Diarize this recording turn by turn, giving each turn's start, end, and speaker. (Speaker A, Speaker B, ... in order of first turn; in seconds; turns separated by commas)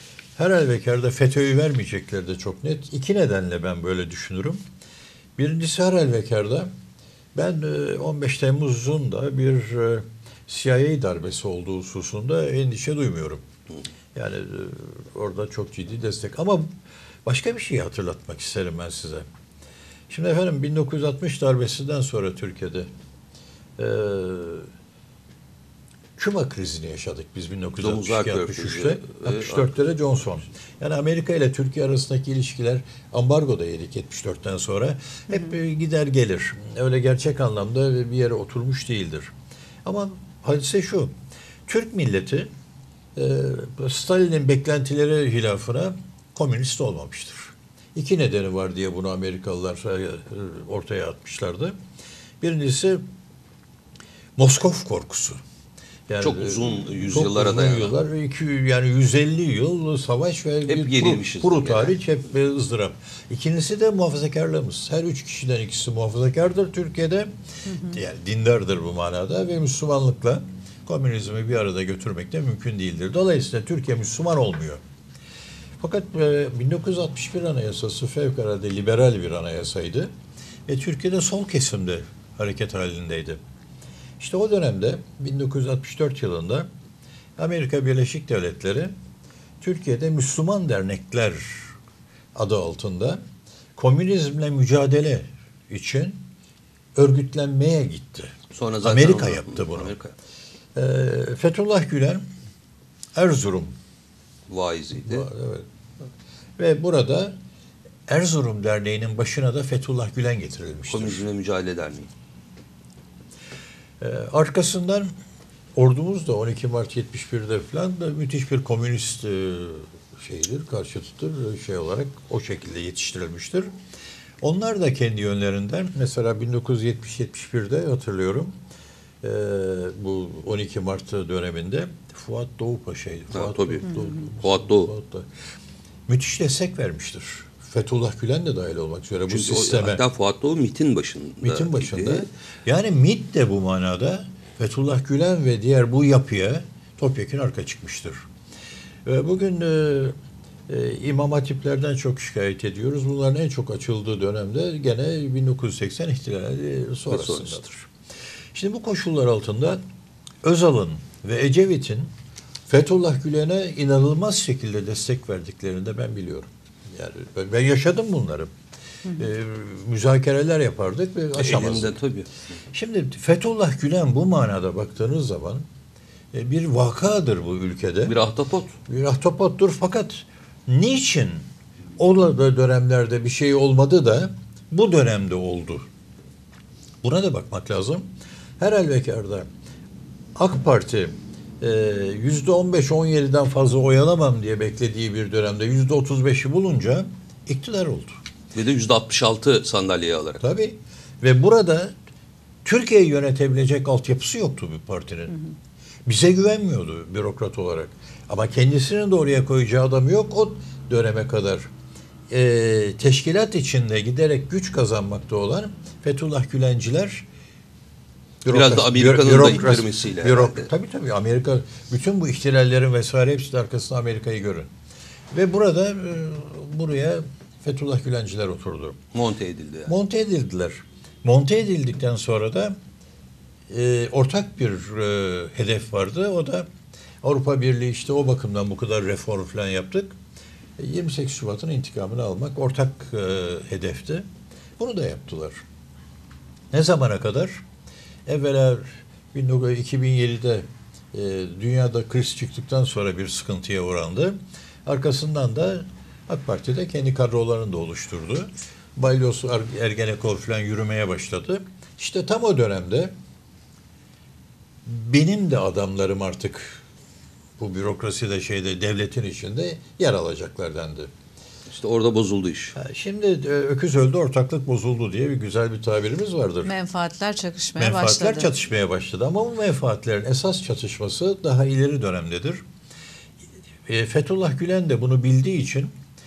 Speaker A: 0.3-4.6, Speaker A: 5.4-6.7, Speaker A: 7.3-13.4, Speaker A: 14.1-16.7, Speaker A: 17.2-19.2, Speaker A: 20.1-22.9, Speaker A: 23.8-24.7, Speaker A: 26.2-39.3, Speaker B: 27.8-29.7, Speaker A: 39.8-41.1, Speaker A: 41.7-42.5, Speaker A: 43.1-51.8, Speaker A: 52.4-53.0, Speaker A: 54.4-55.4, Speaker A: 56.1-74.8, Speaker B: 56.2-57.9, Speaker B: 60.7-61.9, Speaker C: 67.7-68.0, Speaker A: 75.8-80.1, Speaker A: 80.7-83.4, Speaker A: 84.2-86.7, Speaker A: 87.4-88.9, Speaker A: 89.6-91.7, Speaker A: 92.3-93.2, Speaker A: 93.8-96.2, Speaker A: 97.0-99.9, Speaker B: 98.5-100.1, Speaker A: 100.7-102.2, Speaker A: 103.1-103.7, Speaker B: 104.5-105.2, Speaker A: 105.0-105.7, Speaker A: 106.6-107.3, Speaker A: 108.1-111.2, Speaker B: 110.9-112.1, Speaker A: 114.0-115.1, Speaker A: 115.7-123.7, Speaker A: 124.4-128.5, Speaker A: 129.2-135.3, Speaker B: 133.3-134.9, Speaker A: 136.1-140.0, Speaker B: 139.3-142.3, Speaker A: 141.4-148.2, Speaker A: 149.0-150.1, Speaker A: 150.7-157.9, Speaker B: 157.1-157.6, Speaker A: 158.5-159.8, Speaker A: 160.4-162.1, Speaker A: 162.7-168.5, Speaker A: 169.1-171.9, Speaker B: 171.3-172.3, Speaker A: 172.7-175.7, Speaker A: 176.3-178.2, Speaker B: 178.1-178.8, Speaker A: 178.9-181.4, Speaker A: 182.0-185.9, Speaker A: 187.0-188.1, Speaker A: 188.6-189.5, Speaker A: 190.3-198.2, Speaker B: 198.5-200.4, Speaker A: 200.4-201.9, Speaker A: 202.6-205.4, Speaker A: 206.1-211.7, Speaker A: 212.3-217.2, Speaker A: 218.4-224.7, Speaker B: 218.5-220.7, Speaker A: 225.3-229.0, Speaker B: 229.1-229.9, Speaker A: 229.8-232.8, Speaker A: 233.7-236.7, Speaker A: 237.2-240.1, Speaker A: 240.8-244.3, Speaker A: 244.8-245.6, Speaker A: 246.7-247.6, Speaker A: 248.3-263.1, Speaker A: 264.8-266.8, Speaker A: 267.6-271.1, Speaker B: 271.7-272.7, Speaker A: 272.7-276.7, Speaker C: 276.6-278.5, Speaker A: 277.8-282.6, Speaker A: 283.9-285.9